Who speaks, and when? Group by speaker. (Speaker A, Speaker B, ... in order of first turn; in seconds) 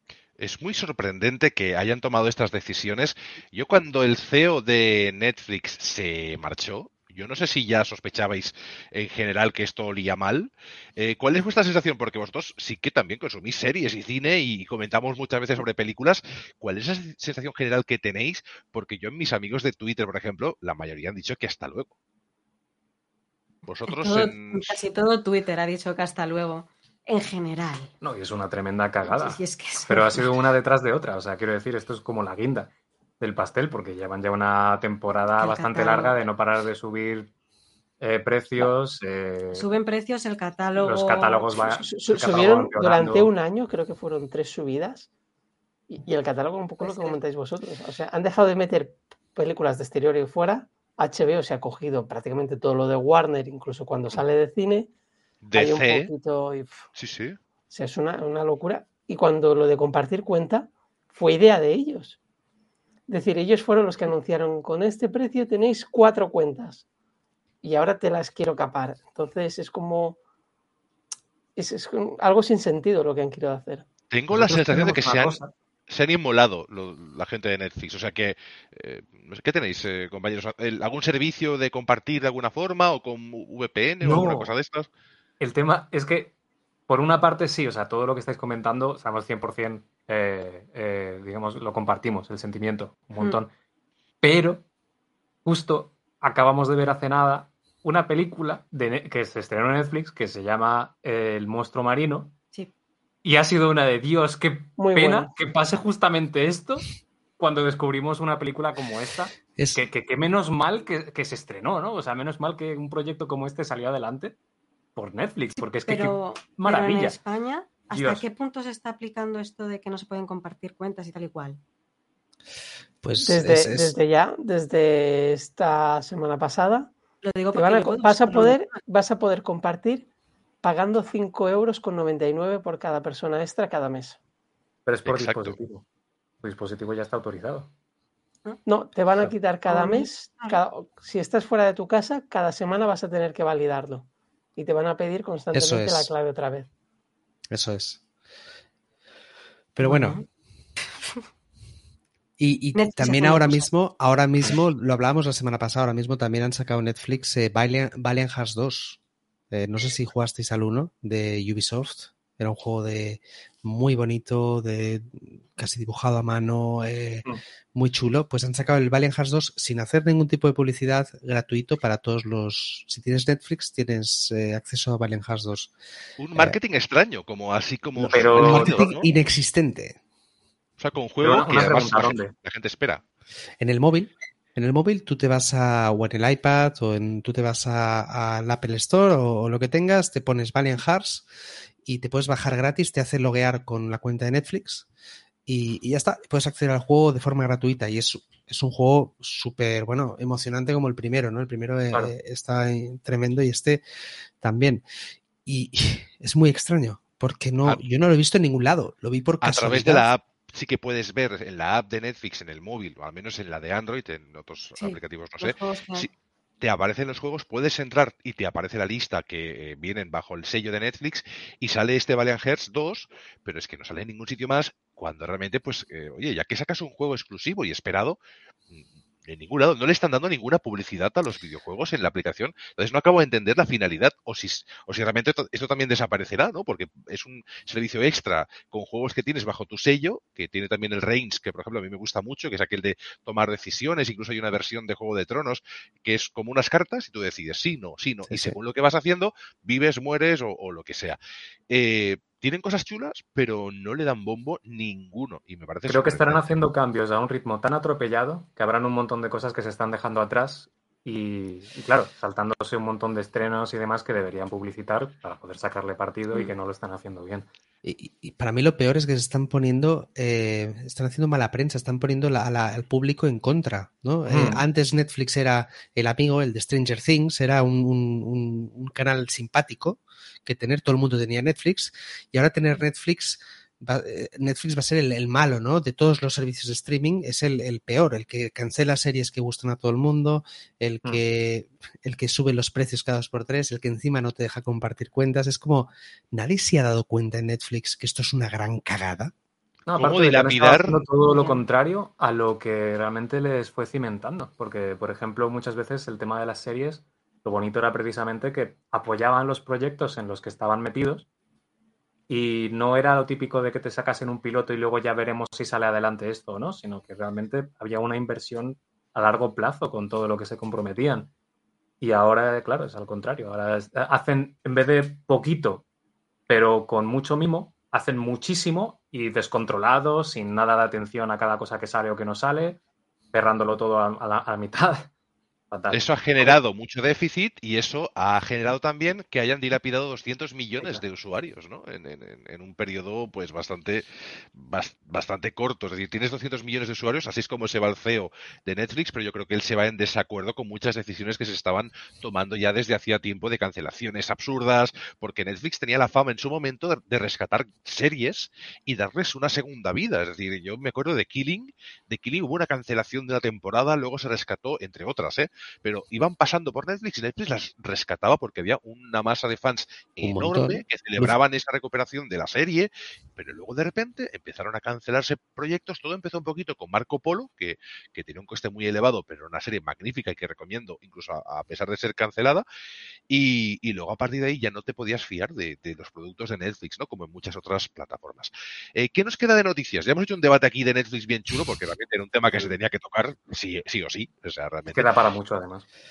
Speaker A: 0.4-21.9, 23.7-24.8, 55.4-56.1, 57.0-57.4, 74.1-84.9, 135.1-135.6, 176.2-179.1, 180.8-183.0, 209.4-228.2, 228.7-251.2, 251.7-256.6, 300.0-301.0, 335.9-382.6, 383.3-395.1
Speaker B: 23.9-27.9, 29.0-30.2, 35.4-36.2, 39.5-41.7, 46.8-47.2, 115.6-121.6, 127.2-128.8, 139.7-140.6, 149.8-150.2, 152.8-153.7, 214.8-216.1, 301.3-301.6
Speaker C: 28.0-37.3, 38.0-39.7, 40.8-43.3, 74.3-75.5, 84.0-84.5, 85.4-86.3, 86.9-93.5, 94.2-94.6, 95.5-102.3, 103.2-114.3, 115.0-117.2, 117.9-118.2, 134.9-135.8, 136.4-137.7, 178.1-178.8, 181.2-182.3, 255.9-267.5, 274.3-274.6, 299.9-311.3, 312.3-321.3, 322.0-325.8, 326.5-332.8, 333.3-335.1, 335.7-336.6, 340.8-341.0, 394.9-395.9
Speaker D: 41.8-45.1, 45.9-54.9, 55.5-56.8, 57.7-62.2, 63.1-66.8, 67.6-70.2, 71.6-73.9, 104.8-105.3, 123.2-126.9, 127.5-130.1, 130.6-134.2, 138.7-146.7
Speaker E: 109.6-109.8, 123.0-124.0, 145.5-146.1, 147.5-148.0, 149.8-150.2, 152.4-159.0, 159.5-175.7, 178.0-180.0, 183.6-191.3, 191.8-194.9, 195.5-203.8, 204.4-204.8, 205.4-210.1, 248.3-248.6, 267.8-299.3, 370.2-371.4